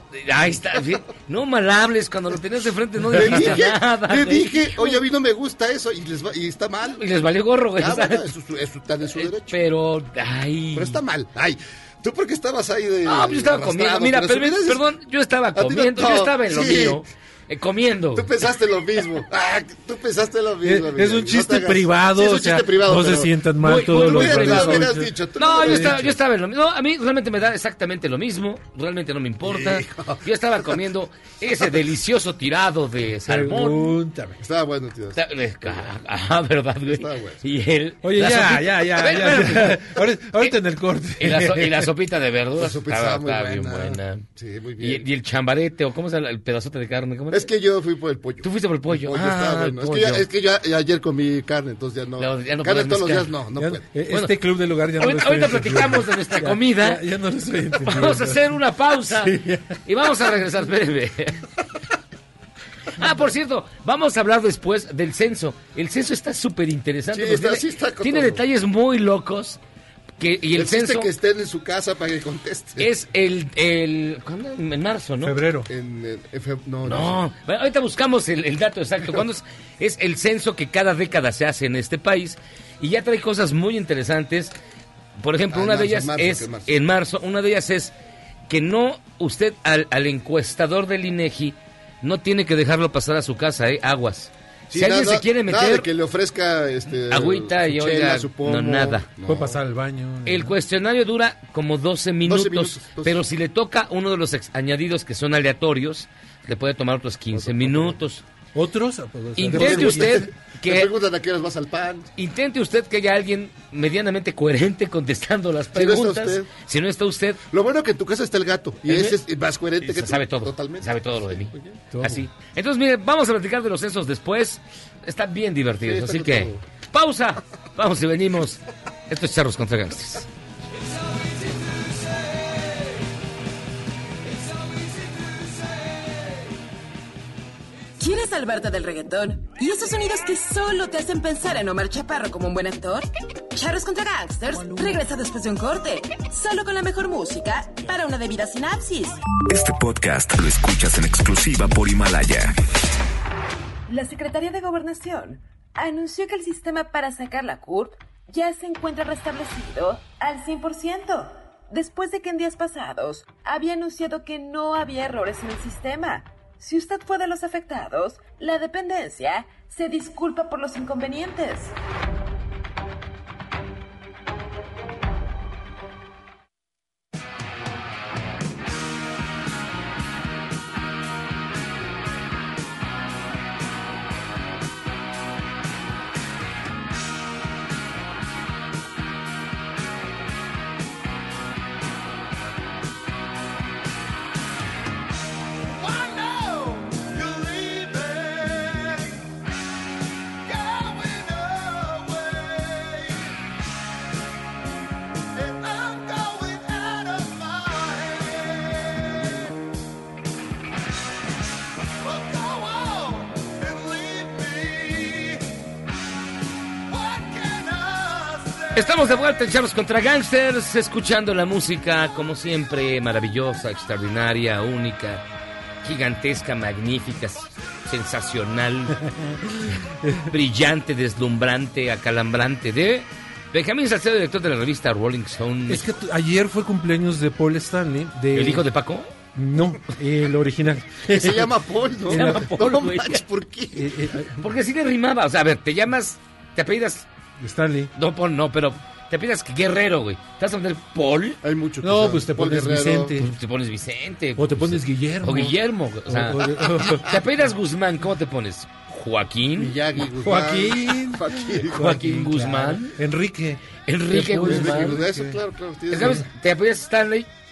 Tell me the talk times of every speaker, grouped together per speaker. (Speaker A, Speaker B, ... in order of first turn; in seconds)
Speaker A: 0.1-5.0, 7.0-8.3, 9.1-11.0, 13.1-18.3, 23.6-34.0, 35.1-40.6, 41.2-44.3, 44.8-47.5, 48.4-50.3, 52.2-53.4, 54.1-54.4, 55.0-57.0, 57.8-61.5, 62.9-69.6, 70.2-71.1, 72.8-75.4, 76.8-84.5, 85.2-87.9, 88.5-95.9, 97.1-99.1, 100.3-108.2, 109.4-110.9, 112.2-117.4, 118.9-119.2, 119.8-130.3, 218.7-225.2, 225.8-229.0, 230.3-235.9, 238.3-239.1, 242.1-243.2, 244.4-247.1, 247.9-251.4, 253.2-259.8, 261.8-263.0, 263.8-265.0, 265.9-267.3
Speaker B: 3.1-7.0, 7.8-9.6, 10.7-14.8, 15.6-17.0, 18.1-23.3, 23.9-26.1, 29.4-30.7, 34.4-36.0, 36.9-37.4, 42.6-45.1, 47.3-53.9, 67.1-68.4, 70.5-72.9, 75.7-77.2, 85.5-86.7, 94.7-99.5, 102.2-103.2, 107.3-108.0, 109.5-112.1, 115.7-116.5, 117.5-121.8, 125.8-126.6, 196.3-199.0, 200.6-202.1, 205.5-208.7, 213.8-215.2, 217.6-217.9, 241.1-243.9, 251.4-253.2, 259.6-261.8, 264.3-266.2
Speaker C: 20.6-26.1, 33.3-34.4, 38.0-41.9, 53.6-58.6, 59.1-59.8, 75.2-75.7, 99.2-100.5, 108.5-110.3, 121.9-122.3, 229.0-230.3, 235.7-238.7, 239.3-241.5, 242.1-242.6, 243.7-244.5, 247.4-247.9, 251.8-253.3, 254.4-257.1, 260.2-265.4
Speaker D: 138.0-149.2, 153.9-171.7
Speaker E: 149.4-152.5